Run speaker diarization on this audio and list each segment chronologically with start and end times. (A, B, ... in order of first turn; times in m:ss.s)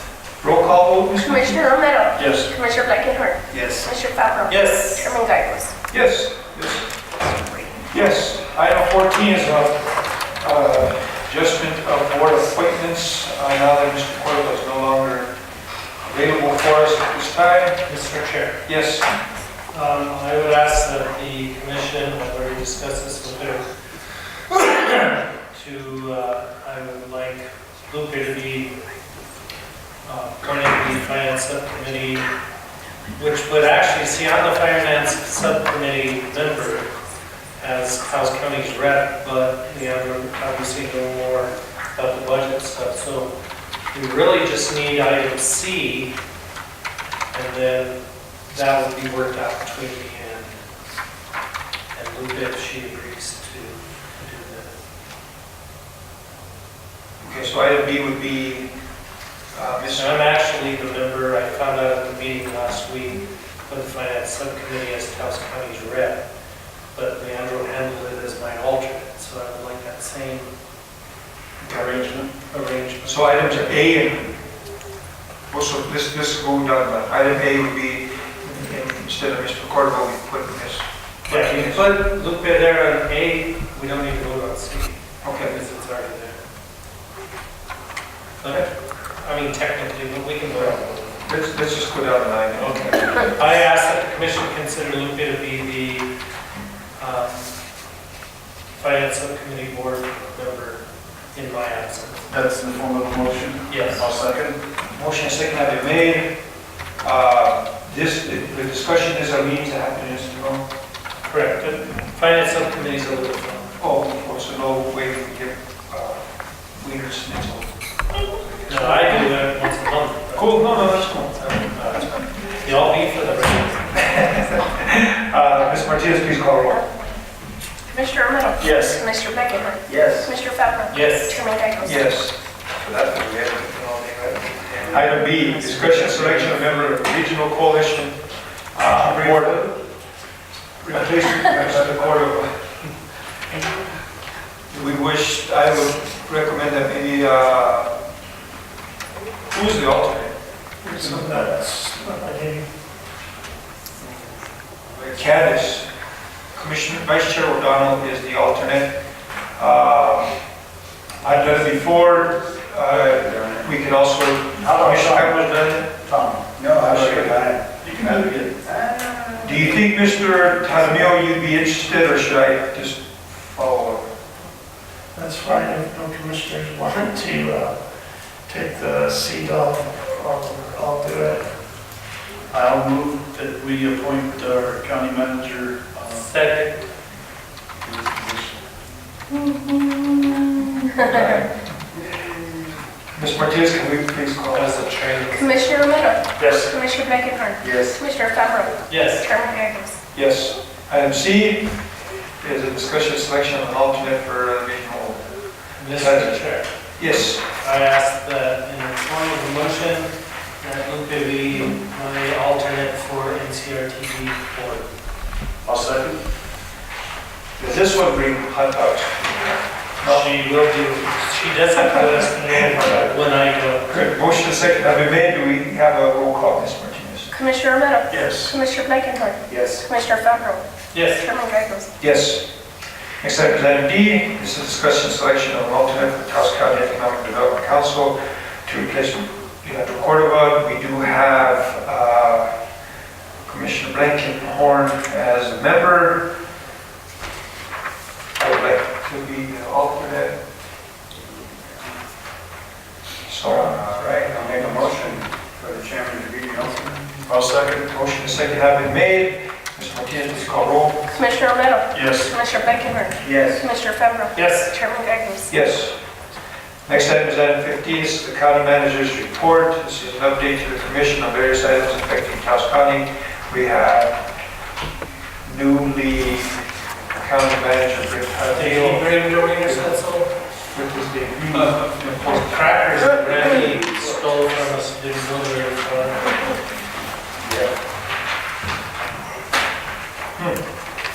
0:00.4-0:01.7 A
0:01.2-0:05.7 B
0:02.2-0:02.5 C
0:03.5-0:03.9 A
0:04.5-0:05.1 D
0:05.9-0:06.9 A
0:07.9-0:15.3 A
0:16.0-0:17.8 A
0:17.8-0:18.6 D
0:18.6-0:19.1 A
0:19.7-0:23.6 D
0:24.5-0:28.7 D
0:30.0-0:32.3 D
0:33.2-0:36.9 D
0:37.6-0:43.3 D
0:43.9-0:46.1 D
0:47.3-0:50.6 D
0:51.9-0:54.8 D
0:57.2-0:58.7 A
0:59.5-1:00.2 A
0:59.9-1:06.2 D
1:06.9-1:10.5 D
1:11.6-1:11.9 A
1:11.7-1:12.3 C
1:12.4-1:13.8 D
1:13.0-1:14.4 A
1:15.5-1:21.9 A
1:21.2-1:26.4 D
1:25.2-1:25.5 A
1:28.4-1:28.7 D
1:29.2-1:31.2 D
1:30.6-1:33.4 A
1:33.3-1:36.1 D
1:37.0-1:37.5 D
1:38.7-1:42.3 D
1:42.3-1:44.6 C
1:43.7-1:44.0 D
1:44.8-1:46.4 A
1:47.0-1:50.6 A
1:51.2-1:53.8 D
1:53.8-1:59.3 A
1:58.7-2:04.0 D
2:00.3-2:02.3 A
2:04.0-2:06.8 A
2:06.7-2:07.2 B
2:07.9-2:12.1 B
2:08.6-2:09.0 C
2:09.8-2:10.3 E
2:10.9-2:11.4 D
2:11.8-2:19.7 A
2:15.8-2:16.4 D
2:19.0-2:19.3 C
2:20.8-2:22.6 A
2:24.7-2:27.9 A
2:29.5-2:30.4 A
2:30.8-2:32.7 F
2:30.9-2:31.3 A
2:34.9-2:35.9 A
2:36.5-2:38.9 A
2:39.5-2:40.3 A
2:41.2-2:45.9 A
2:43.1-2:43.7 E
2:44.6-2:45.6 C
2:46.0-2:49.9 E
2:46.4-2:48.5 C
2:49.4-2:54.2 A
2:55.1-2:57.8 F
2:58.5-3:01.5 F
3:02.5-3:06.3 C
3:06.1-3:06.8 D
3:07.8-3:08.6 C
3:09.5-3:09.9 B
3:10.8-3:11.3 B
3:11.0-3:12.3 A
3:13.1-3:14.8 A
3:14.5-3:16.0 D
3:15.3-3:20.0 B
3:16.4-3:16.7 C
3:17.6-3:18.0 E
3:18.9-3:19.3 D
3:20.1-3:21.8 A
3:22.4-3:25.3 A
3:25.8-3:26.7 D
3:25.9-3:26.4 A
3:27.0-3:27.4 A
3:27.6-3:34.9 D
3:35.6-3:36.2 C
3:37.6-3:40.3 A
3:40.0-3:44.0 D
3:43.9-3:47.3 A
3:47.3-3:51.9 B
3:48.1-3:48.5 C
3:49.5-3:49.8 E
3:50.9-3:51.2 D
3:52.0-3:52.4 A
3:53.2-4:02.5 A
4:03.4-4:06.2 A
4:08.4-4:10.4 A
4:11.5-4:11.8 E
4:13.2-4:14.2 A
4:13.7-4:17.2 E
4:17.2-4:17.8 C
4:17.8-4:21.1 A
4:21.1-4:25.5 B
4:21.9-4:22.3 C
4:23.2-4:23.6 E
4:24.3-4:24.7 D
4:25.5-4:25.9 A
4:26.8-4:34.2 A
4:35.4-4:36.6 A
4:37.1-4:40.0 A
4:38.5-4:40.3 D
4:40.7-4:42.8 A
4:41.5-4:46.4 D
4:47.4-4:47.7 E